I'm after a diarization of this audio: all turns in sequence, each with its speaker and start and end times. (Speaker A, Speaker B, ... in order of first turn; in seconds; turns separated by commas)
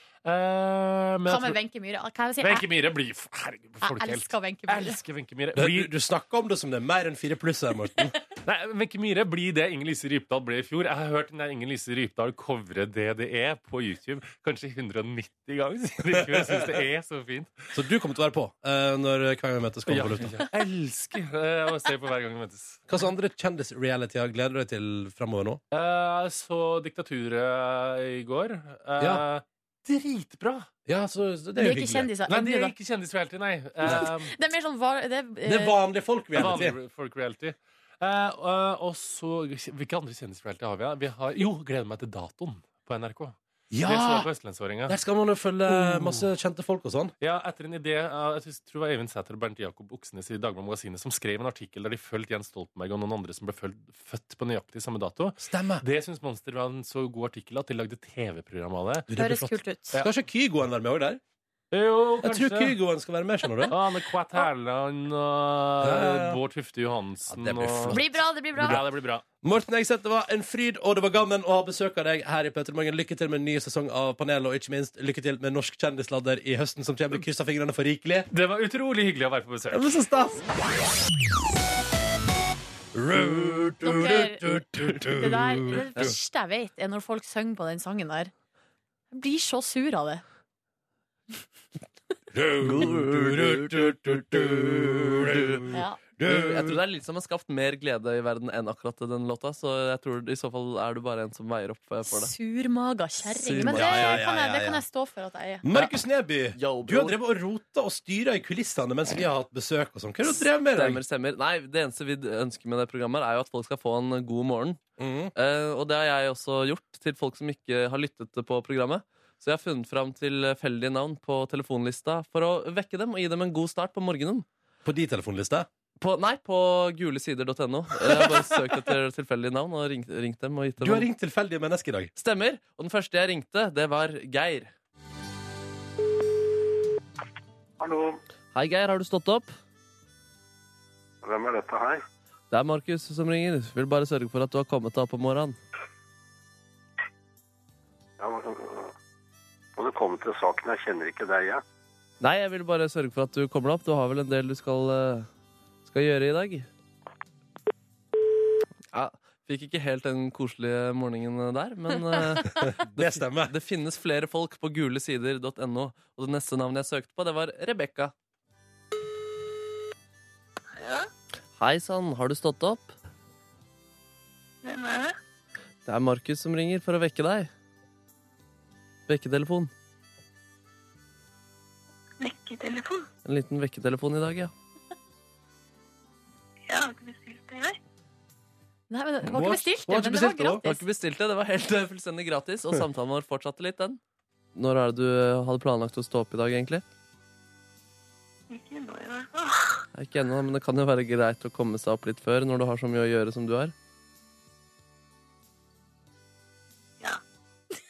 Speaker A: 0.2-1.6, Speaker B: 1.2-2.7, Speaker A: 2.4-5.9, Speaker B: 3.8-5.0, Speaker C: 5.5-8.2, Speaker A: 8.4-17.7, Speaker C: 17.7-20.4, Speaker A: 19.9-22.8, Speaker C: 22.9-25.6, Speaker A: 25.7-30.7, Speaker C: 30.9-32.1, Speaker B: 31.6-32.7, Speaker A: 32.3-34.3, Speaker B: 33.9-35.8, Speaker C: 35.4-36.7, Speaker A: 36.3-45.0, Speaker C: 43.7-44.3, Speaker C: 44.9-47.1, Speaker A: 45.7-46.2, Speaker A: 47.2-59.1, Speaker C: 55.4-55.8, Speaker C: 59.1-61.2, Speaker B: 59.1-60.0, Speaker A: 61.7-62.7, Speaker C: 62.2-63.7, Speaker A: 63.7-69.2, Speaker C: 65.8-66.4, Speaker C: 67.3-68.8, Speaker B: 67.9-68.8, Speaker C: 69.4-78.3, Speaker A: 78.3-79.9, Speaker C: 79.7-80.4, Speaker C: 82.9-86.1, Speaker B: 83.8-88.3, Speaker B: 89.1-90.2, Speaker C: 92.3-96.8, Speaker D: 92.6-95.6, Speaker B: 95.7-96.0, Speaker D: 96.2-102.3, Speaker B: 102.0-105.6, Speaker D: 103.3-104.2, Speaker C: 103.6-104.8, Speaker C: 105.6-111.0, Speaker D: 106.5-107.2, Speaker D: 110.7-114.8, Speaker C: 115.0-115.3, Speaker D: 115.3-124.5, Speaker C: 124.8-125.7, Speaker D: 126.0-131.1, Speaker C: 128.1-128.3, Speaker C: 130.8-132.1, Speaker D: 132.2-134.7, Speaker E: 137.8-138.2, Speaker D: 138.5-139.5, Speaker E: 141.2-142.0, Speaker D: 142.5-145.6, Speaker E: 148.2-148.9, Speaker E: 149.8-151.6, Speaker D: 152.2-155.3, Speaker D: 155.8-156.7, Speaker D: 158.9-168.1, Speaker C: 162.6-163.5, Speaker D: 171.6-172.9, Speaker F: 174.6-175.1, Speaker D: 175.8-177.5, Speaker D: 179.1-179.7, Speaker F: 182.2-183.1, Speaker D: 183.2-184.5, Speaker F: 186.7-187.8, Speaker B: 188.9-190.8, Speaker C: 189.3-190.6, Speaker D: 190.6-194.0, Speaker D: 194.5-196.8, Speaker F: 198.5-199.7, Speaker D: 199.9-203.7